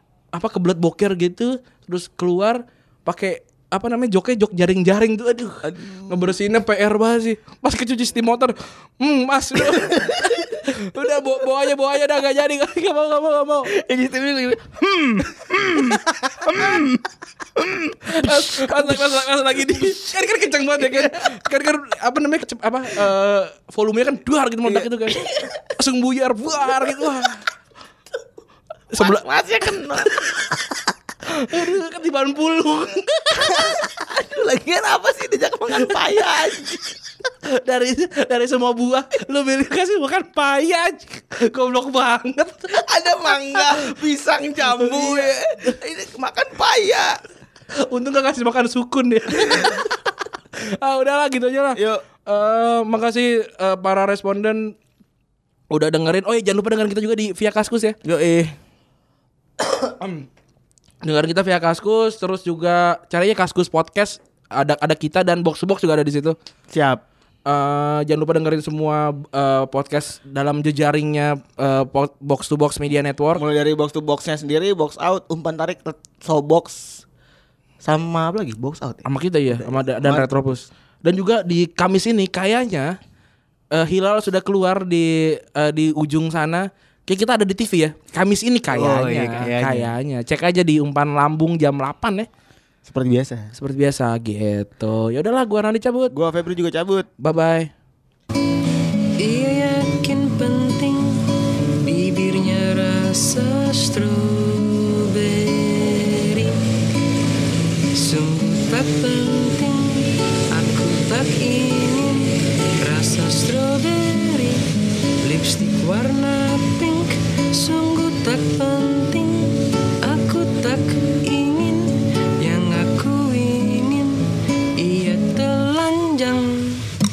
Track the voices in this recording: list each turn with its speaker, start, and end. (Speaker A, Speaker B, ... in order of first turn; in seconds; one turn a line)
Speaker A: 0.3-13.7
Speaker B: 5.6-6.3
Speaker B: 9.6-10.4
Speaker B: 13.7-20.2
Speaker A: 16.5-16.8
Speaker A: 18.1-25.2
Speaker B: 20.8-21.3
Speaker B: 24.6-25.6
Speaker A: 25.8-27.4
Speaker B: 26.6-27.1
Speaker A: 28.9-29.2
Speaker B: 29.0-30.7
Speaker A: 31.4-33.8
Speaker B: 33.5-36.9
Speaker A: 37.5-42.8
Speaker B: 42.7-47.2
Speaker A: 43.5-43.8
Speaker A: 44.6-45.3
Speaker A: 47.9-50.0
Speaker B: 49.4-49.8
Speaker A: 50.8-54.8
Speaker B: 51.8-52.0
Speaker A: 55.7-58.0
Speaker B: 58.0-58.5
Speaker A: 59.8-60.2
Speaker A: 61.0-66.4
Speaker B: 66.7-67.0
Speaker A: 67.5-73.4
Speaker B: 73.3-77.0
Speaker B: 77.8-80.3
Speaker A: 79.0-83.0
Speaker A: 83.7-92.3
Speaker B: 88.7-89.9
Speaker B: 92.8-93.5
Speaker A: 93.5-96.1
Speaker B: 96.1-97.1
Speaker A: 97.2-97.7
Speaker C: 99.2-101.2
Speaker C: 101.8-106.6
Speaker C: 108.0-114.6
Speaker C: 115.2-124.2
Speaker C: 124.8-126.8